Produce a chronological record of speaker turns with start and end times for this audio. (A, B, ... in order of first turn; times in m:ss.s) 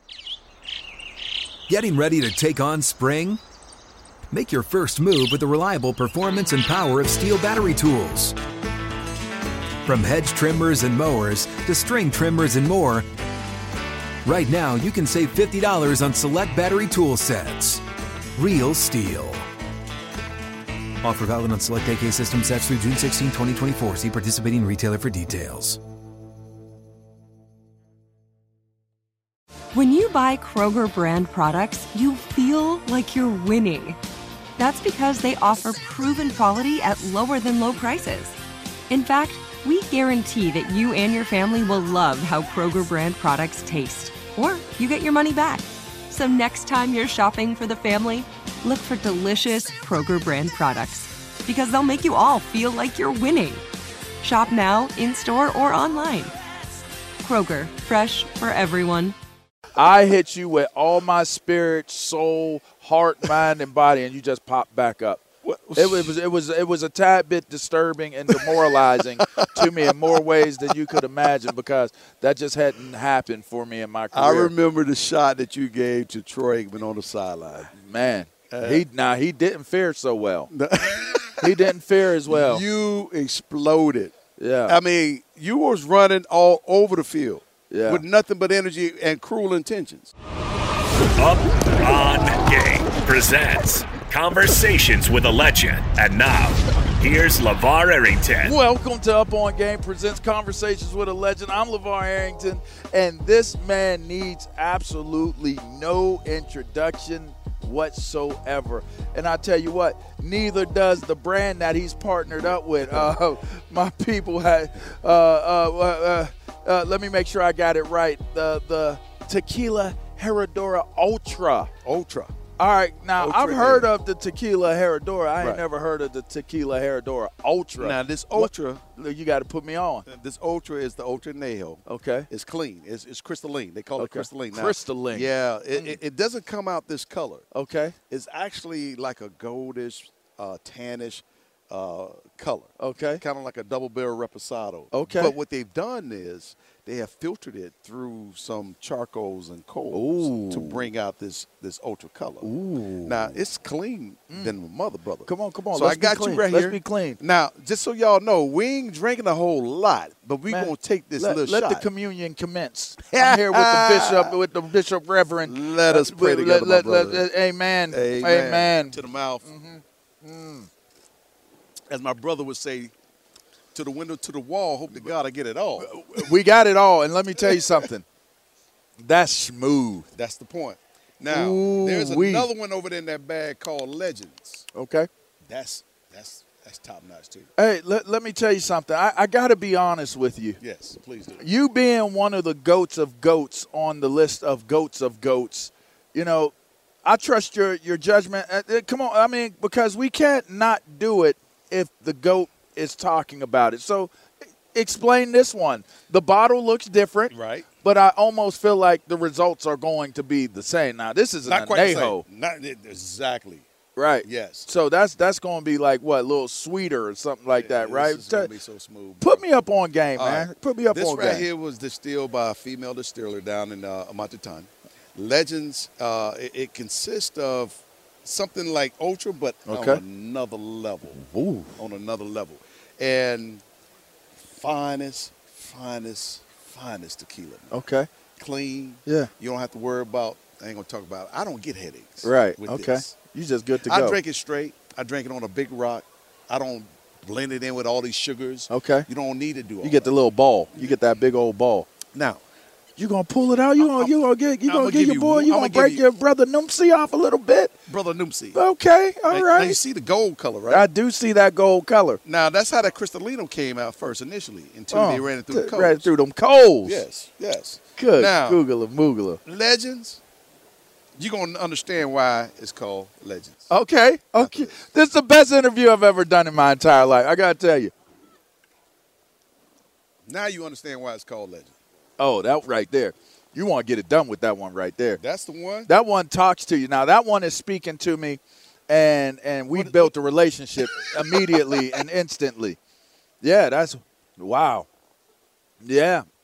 0:01.7-0:03.4 A
0:04.3-0:08.4 A
0:09.8-0:13.1 A
0:14.2-0:17.8 A
0:18.4-0:19.4 A
0:21.0-0:25.8 A
0:29.7-0:34.0 B
0:34.6-0:38.4 B
0:38.9-0:53.6 B
0:54.2-0:56.3 B
0:57.2-0:59.2 B
0:59.8-1:05.2 C
1:05.4-1:06.1 D
1:05.8-1:14.5 C
1:08.3-1:08.7 D
1:14.1-1:17.7 D
1:17.7-1:20.5 C
1:18.5-1:18.8 D
1:20.5-1:21.5 D
1:21.4-1:22.6 C
1:22.3-1:24.1 D
1:24.4-1:24.8 C
1:24.7-1:30.1 D
1:27.7-1:28.0 C
1:31.2-1:38.5 E
1:38.4-2:01.7 C
1:52.4-1:53.1 D
2:01.8-2:02.3 D
2:02.6-2:10.0 C
2:03.2-2:03.9 D
2:07.8-2:08.8 D
2:10.0-2:17.4 D
2:11.8-2:12.3 C
2:14.0-2:16.0 C
2:17.5-2:17.9 C
2:18.1-2:32.5 D
2:22.8-2:23.2 C
2:24.9-2:25.3 C
2:29.9-2:30.9 C
2:32.4-2:33.4 C
2:33.0-2:41.8 D
2:35.2-2:37.2 C
2:40.5-2:50.7 C
2:43.1-2:44.3 D
2:45.4-2:47.3 D
2:47.9-2:49.4 D
2:51.9-2:52.9 D
2:53.7-2:55.9 D
2:55.8-2:58.0 C
2:59.0-3:00.1 C
3:00.1-3:04.7 D
3:01.3-3:02.5 C
3:04.7-3:05.1 C
3:05.5-3:07.5 D
3:07.6-3:10.6 C
3:10.6-3:11.4 D
3:11.4-3:16.5 C
3:17.0-3:24.1 C
3:24.7-3:32.2 C
3:27.3-3:27.7 D
3:31.4-3:33.6 D
3:34.0-3:38.5 C
3:34.2-3:34.7 D
3:37.6-3:39.4 D
3:39.2-3:41.5 C
3:40.2-3:51.2 D
3:49.7-3:50.0 C
3:51.2-3:51.7 C
3:51.8-3:53.6 D
3:54.5-3:57.7 D
3:57.7-3:58.1 C
3:58.4-4:03.2 D
4:02.2-4:04.2 C
4:03.8-4:10.1 D
4:08.7-4:09.1 C
4:09.8-4:11.9 C
4:12.1-4:12.4 D
4:13.0-4:17.7 C
4:13.8-4:14.2 D
4:14.7-4:16.0 D
4:17.9-4:18.6 D
4:18.5-4:19.8 C
4:19.3-4:20.9 D
4:20.7-4:22.2 C
4:22.2-4:26.1 D
4:24.9-4:27.0 C
4:26.8-4:28.6 D
4:28.0-4:29.4 C
4:29.4-4:30.2 D
4:31.2-4:33.7 D
4:33.7-4:37.9 C
4:34.4-4:34.8 D
4:40.3-4:41.7 D
4:42.2-4:45.2 C
4:45.2-4:45.9 D
4:45.9-4:52.8 C
4:49.7-4:50.1 D
4:50.8-4:51.9 D
4:53.4-4:54.9 C
4:55.8-4:56.2 C